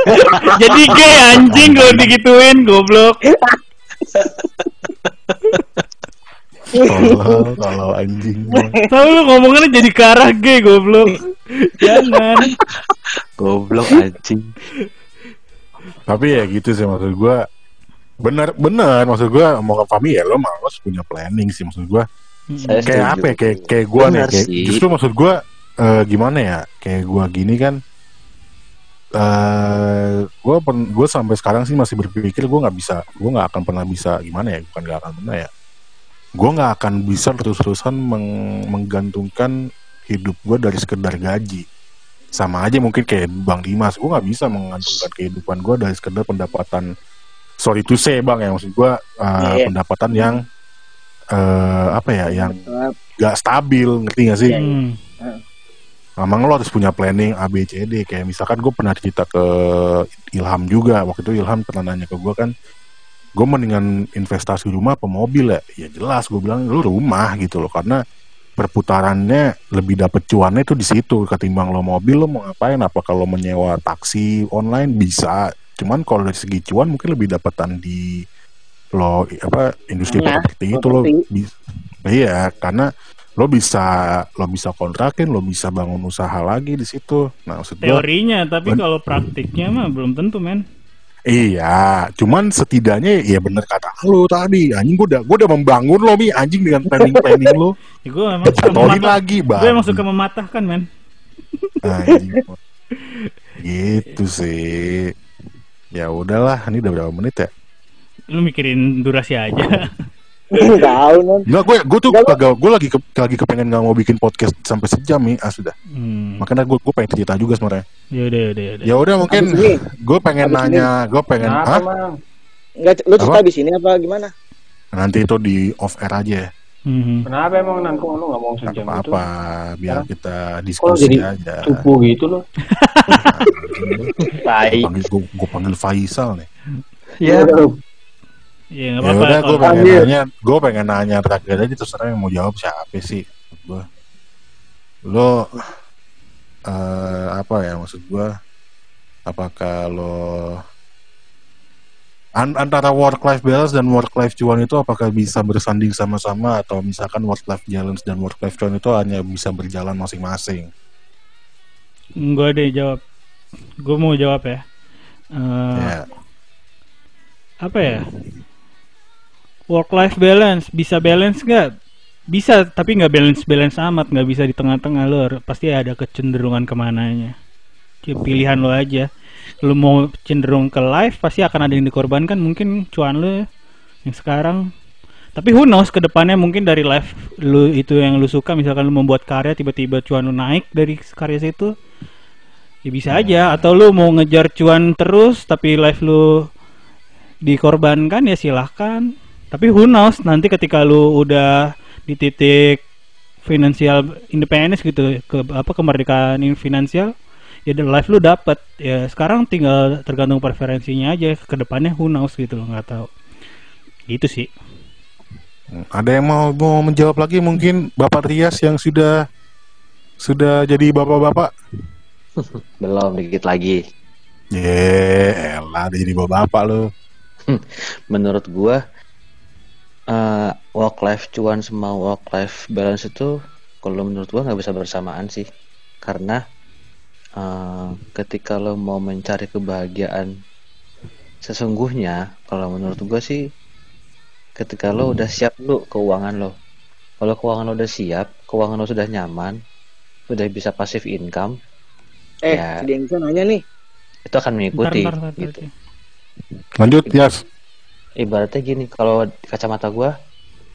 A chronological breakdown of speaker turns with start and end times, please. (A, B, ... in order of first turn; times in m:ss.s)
0:00.4-0:03.2 A
0:01.0-0:02.1 B
0:06.7-0:07.5 C
0:06.8-0:08.7 B
0:08.5-0:08.9 C
0:08.9-0:12.5 A
0:13.4-0:14.5 D
0:16.1-0:17.4 B
0:18.2-0:22.0 B
0:22.5-0:22.9 A
0:22.6-0:24.8 D
0:22.9-0:27.8 B
0:29.2-0:35.5 B
0:36.4-0:39.5 B
0:40.1-0:41.6 B
0:42.4-0:46.9 B
0:47.6-0:50.4 B
0:49.4-0:50.4 C
0:51.4-0:52.6 B
0:52.3-0:52.9 C
0:53.2-0:54.6 B
0:54.4-0:55.4 C
0:54.6-0:55.0 A
0:56.2-1:02.5 B
1:03.4-1:08.0 B
1:08.6-1:18.1 B
1:19.0-1:21.5 B
1:20.1-1:21.2 C
1:22.1-1:22.9 B
1:23.4-1:28.0 B
1:27.8-1:30.6 A
1:31.3-1:37.7 B
1:37.0-1:37.5 C
1:38.0-1:40.8 A
1:38.5-1:40.0 B
1:41.8-1:42.6 B
1:42.1-1:42.4 C
1:43.6-1:45.1 B
1:45.9-1:47.5 B
1:48.3-1:49.9 A
1:50.5-1:51.4 C
1:51.5-1:55.7 B
1:52.1-1:52.4 C
1:55.9-1:56.4 A
1:56.4-1:57.8 B
1:58.2-1:58.9 A
1:58.9-2:01.8 B
1:59.3-1:59.8 C
2:00.4-2:00.9 C
2:01.4-2:02.1 E
2:02.8-2:04.3 C
2:05.0-2:06.5 B
2:06.9-2:07.3 A
2:07.3-2:09.2 E
2:08.6-2:11.8 B
2:10.8-2:12.4 E
2:12.7-2:13.3 A
2:13.2-2:14.1 B
2:14.4-2:14.9 D
2:14.8-2:16.5 B
2:17.2-2:17.6 D
2:17.3-2:17.7 E
2:18.8-2:19.9 A
2:19.0-2:23.8 B
2:19.6-2:20.1 E
2:25.1-2:25.6 B
2:26.7-2:28.3 B
2:29.3-2:30.6 B
2:32.4-2:40.7 B
2:42.2-2:43.0 A
2:43.8-2:44.6 A
2:45.3-2:45.9 A
2:45.8-2:46.0 B
2:47.6-2:48.0 A
2:49.7-2:51.7 A
2:52.3-2:57.3 A
2:58.0-2:59.1 A
2:59.6-3:03.4 A
3:04.0-3:04.6 A
3:05.4-3:11.7 A
3:12.9-3:16.2 A
3:13.1-3:13.7 B
3:17.4-3:22.8 A
3:23.4-3:27.1 A
3:27.7-3:33.1 A
3:34.1-3:34.5 A
3:35.7-3:39.1 B
3:40.2-3:41.5 B
3:42.4-3:43.8 D
3:44.6-3:46.8 B
3:47.5-3:48.8 D
3:50.1-3:53.3 D
3:53.8-3:55.4 D
3:56.0-3:56.4 D
3:57.4-4:00.3 D
4:01.4-4:03.4 D
4:04.6-4:06.5 D
4:07.2-4:09.6 D
4:10.3-4:11.5 D
4:12.4-4:13.6 C
4:12.5-4:12.8 D
4:14.3-4:15.6 D
4:14.8-4:15.7 A
4:16.8-4:17.3 B
4:18.2-4:20.1 D